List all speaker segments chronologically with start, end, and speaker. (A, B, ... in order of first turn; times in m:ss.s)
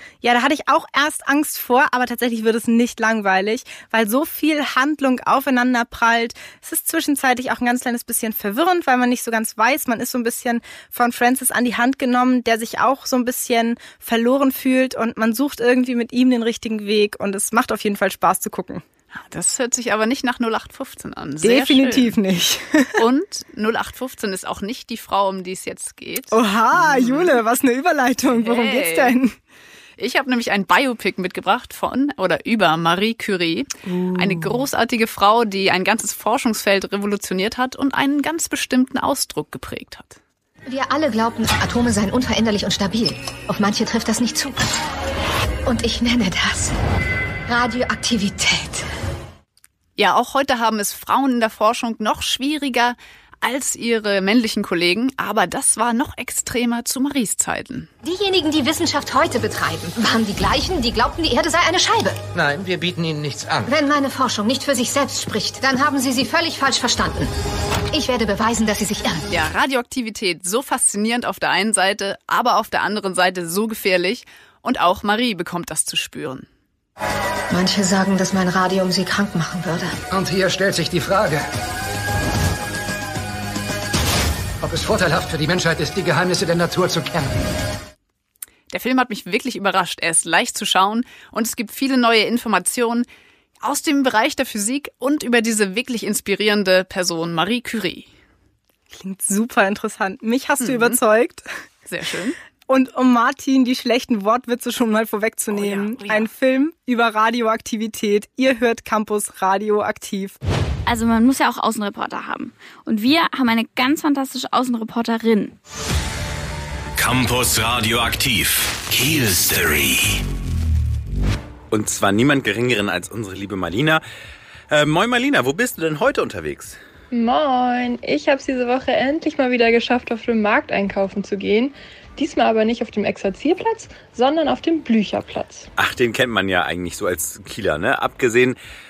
0:00.2-0:18.8 A
0:19.2-0:22.2 B
0:21.4-0:22.9 A
0:23.0-0:27.4 B
0:26.3-0:29.3 A
0:28.3-0:29.2 B
0:30.0-0:40.2 B
0:34.1-0:34.6 A
0:40.7-0:44.6 C
0:45.6-0:46.7 C
0:47.5-0:48.8 C
0:50.0-0:57.9 B
0:58.0-1:02.2 C
1:02.3-1:03.7 D
1:03.6-1:07.3 C
1:07.9-1:09.2 C
1:09.3-1:16.5 B
1:17.5-1:19.9 C
1:20.1-1:21.4 D
1:24.6-1:27.3 D
1:28.7-1:33.1 B
1:33.6-1:38.1 B
1:38.9-1:41.4 A
1:40.6-1:41.0 B
1:41.8-1:42.4 B
1:42.7-1:50.4 A
1:45.5-1:46.3 B
1:50.8-1:55.5 E
1:57.0-2:00.2 F
2:01.7-2:04.0 G
2:04.7-2:06.8 G
2:07.1-2:15.7 H
2:15.8-2:18.6 G